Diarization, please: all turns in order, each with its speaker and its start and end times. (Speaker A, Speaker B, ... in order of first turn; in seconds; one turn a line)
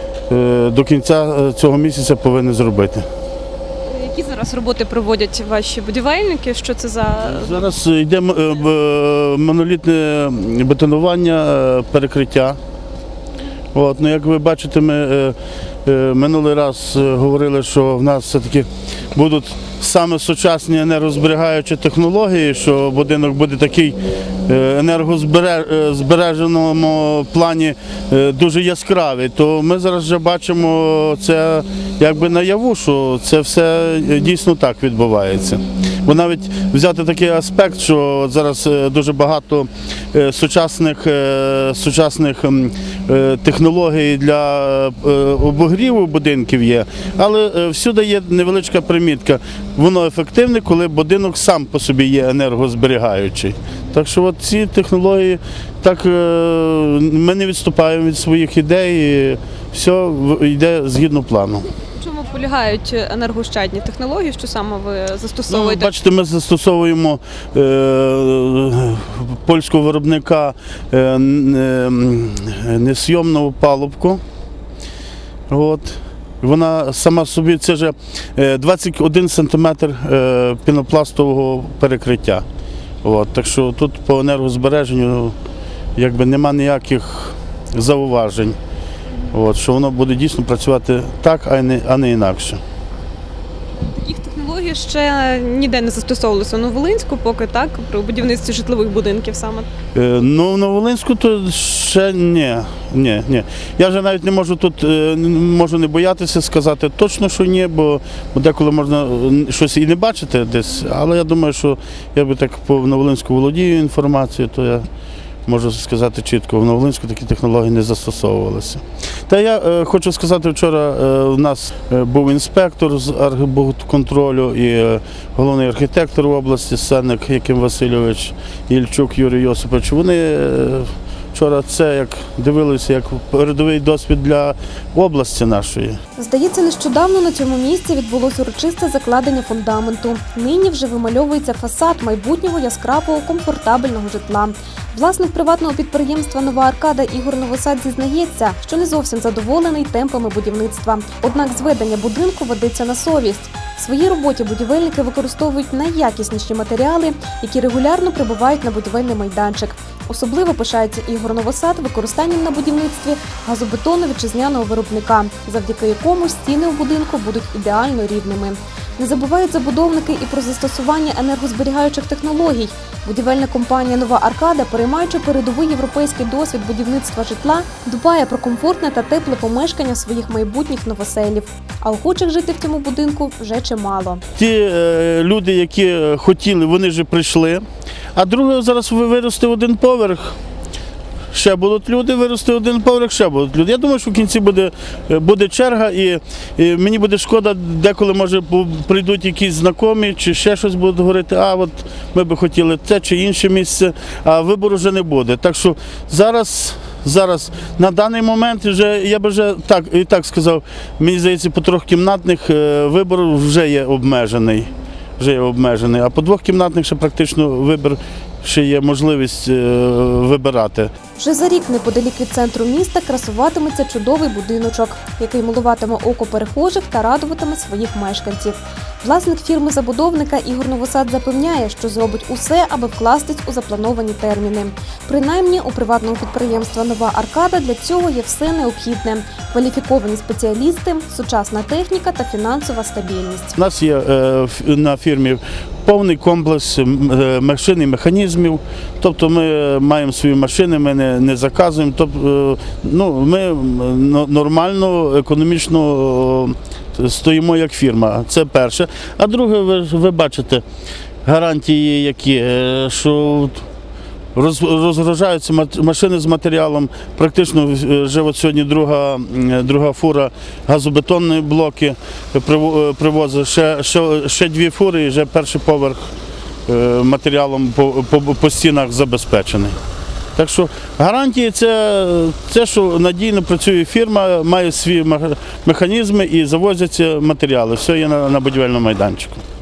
Speaker A: 0.3-3.1
Speaker B: 3.9-7.7
Speaker A: 7.2-12.6
Speaker A: 13.7-61.7
Speaker B: 61.9-65.9
Speaker A: 65.5-74.2
Speaker A: 75.5-82.5
Speaker A: 83.0-85.4
Speaker A: 86.0-88.6
Speaker A: 89.3-92.6
Speaker B: 93.8-99.7
Speaker A: 99.9-114.9
Speaker A: 115.5-136.0
Speaker C: 136.2-184.2
Speaker A: 184.4-187.6
Speaker A: 188.2-190.4
Speaker A: 191.3-220.9
Speaker C: 221.2-243.6
Speaker A: 243.6-260.6
Speaker A: 261.2-263.7
Speaker A: 264.3-276.1
Speaker A: 276.7-279.8
Speaker A: 280.4-289.4